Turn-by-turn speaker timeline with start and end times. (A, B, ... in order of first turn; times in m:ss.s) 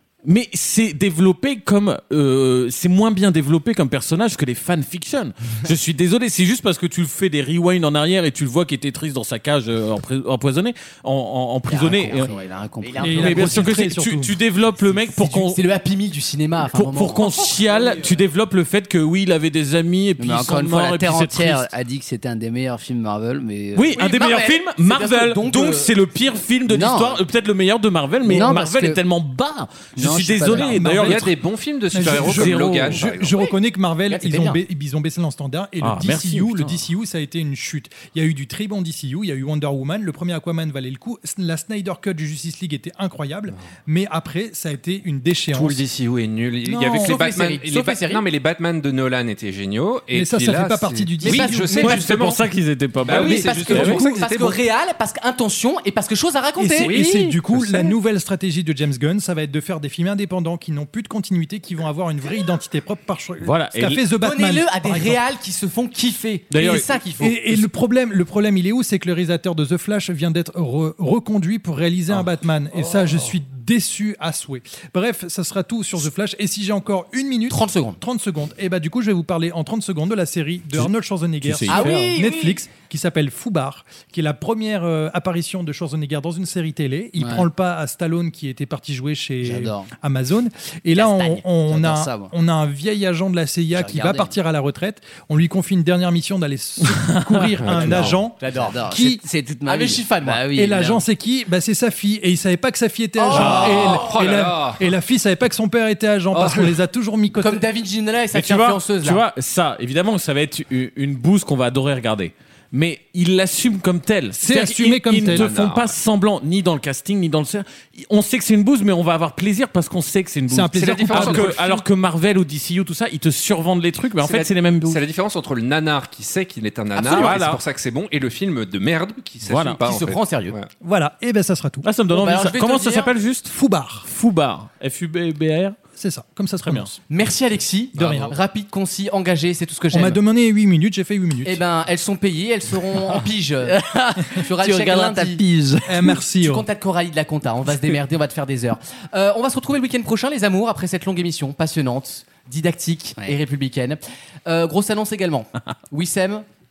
0:00.2-0:12.3 A
0:11.7-0:13.6 B
0:12.2-0:13.6 C
0:13.0-0:14.4 D
0:13.1-0:15.6 A
0:15.2-0:18.2 C
0:16.7-0:21.7 A
0:20.2-0:24.0 B
0:23.7-0:31.3 A
0:24.0-0:25.9 C
0:26.7-0:27.2 B
0:28.2-0:29.0 B
0:30.0-0:30.8 B
0:30.4-0:31.4 D
0:30.9-0:33.4 E
0:31.9-0:45.8 D
0:31.9-0:33.0 A
0:34.1-0:34.6 C
0:35.8-0:36.8 A
0:45.5-0:52.4 E
0:46.6-0:47.2 D
0:46.9-0:48.2 C
0:50.1-0:52.2 D
0:51.2-0:52.0 C
0:51.8-0:54.0 A
0:53.0-0:54.6 E
0:53.0-0:57.9 C
0:53.2-0:54.3 D
0:56.6-1:05.2 D
0:56.8-0:57.2 A
1:03.4-1:04.0 A
1:04.2-1:07.6 C
1:06.5-1:06.9 A
1:07.2-1:39.2 D
1:17.5-1:18.0 C
1:21.4-1:22.2 A
1:21.7-1:22.6 C
1:27.2-1:27.4 B
1:29.4-1:29.9 B
1:30.9-1:31.4 C
1:31.7-1:32.3 B
1:33.7-1:34.3 B
1:36.8-1:37.8 A
1:37.6-1:38.2 E
1:38.4-1:38.8 C
1:38.5-1:41.0 B
1:39.6-1:40.4 C
1:40.5-1:47.6 D
1:43.2-1:44.1 C
1:43.3-1:44.8 E
1:46.3-1:46.8 E
1:47.4-1:49.2 C
1:48.3-2:05.0 A
1:54.4-1:55.5 D
1:55.2-1:55.9 E
2:00.5-2:01.8 D
2:00.7-2:01.6 E
2:04.2-2:10.7 E
2:07.0-2:07.6 A
2:07.0-2:07.4 C
2:09.4-2:09.8 A
2:09.8-2:10.6 C
2:10.8-2:11.9 D
2:11.8-2:15.8 A
2:12.1-2:13.1 C
2:13.5-2:14.0 D
2:16.0-2:17.0 D
2:17.1-2:20.2 C
2:18.0-2:18.3 D
2:18.0-2:18.2 E
2:19.9-2:21.6 D
2:21.4-2:25.4 C
2:23.6-2:26.2 B
2:25.8-2:26.6 D
2:26.4-2:36.4 C